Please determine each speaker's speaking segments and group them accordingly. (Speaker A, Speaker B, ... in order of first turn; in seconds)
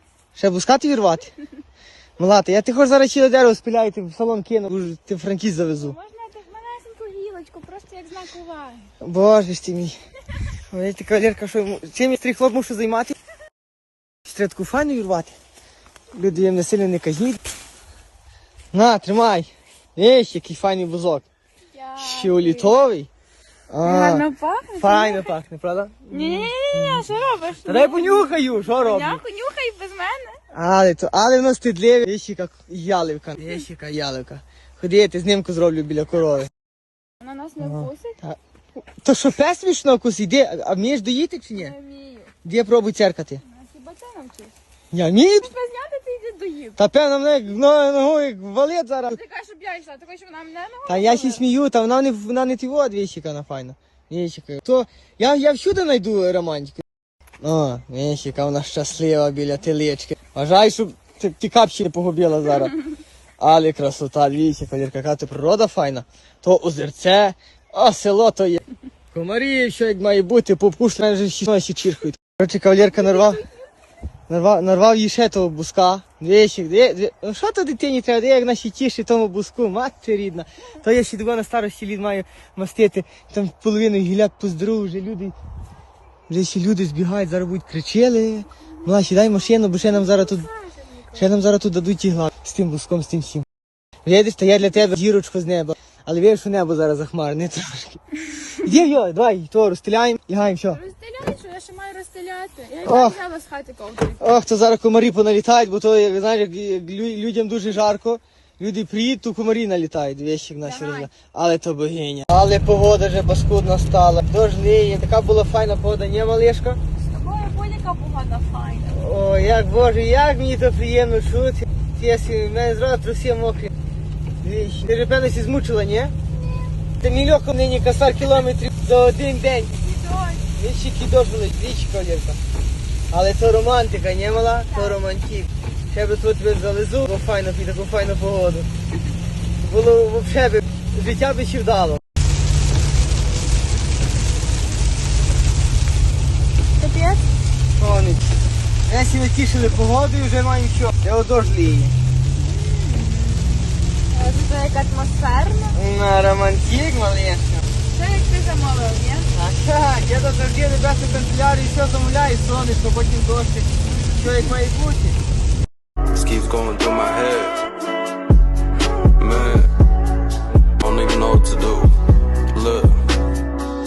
Speaker A: 0.3-1.3, 2.2-5.9, 9.0-9.9, 10.7-13.1, 14.2-15.3, 16.1-17.4, 18.7-21.2, 22.0-23.1, 23.7-24.3, 24.8-27.1, 27.6-29.2, 30.5-36.5, 37.6-38.4, 39.0-41.7, 42.4-43.4, 44.9-45.5, 46.8-49.2, 50.9-56.8, 57.4-62.8, 63.4-73.4, 74.3-85.3, 86.3-90.5, 91.1-93.5, 94.0-98.0, 98.5-100.8, 102.8-103.2, 104.2-116.8, 118.9-123.7, 124.4-126.1, 127.0-129.7, 130.5-132.4, 133.1-138.7, 139.6-142.0, 147.8-148.3, 148.9-151.9, 155.7-157.6, 159.3-165.2
Speaker B: 5.7-8.9, 21.7-22.8, 23.8-25.3, 26.1-30.4, 37.2-38.2, 41.5-42.3, 43.4-44.5, 45.4-46.8, 49.1-51.4, 72.8-73.5, 89.2-91.2, 100.6-104.2, 110.6-111.1, 117.0-119.0, 126.3-126.7, 129.7-130.5, 134.7-135.0, 146.8-147.2, 152.3-155.8, 157.9-159.3
Speaker C: 166.1-167.6, 169.2-169.7, 170.8-171.9, 172.5-173.0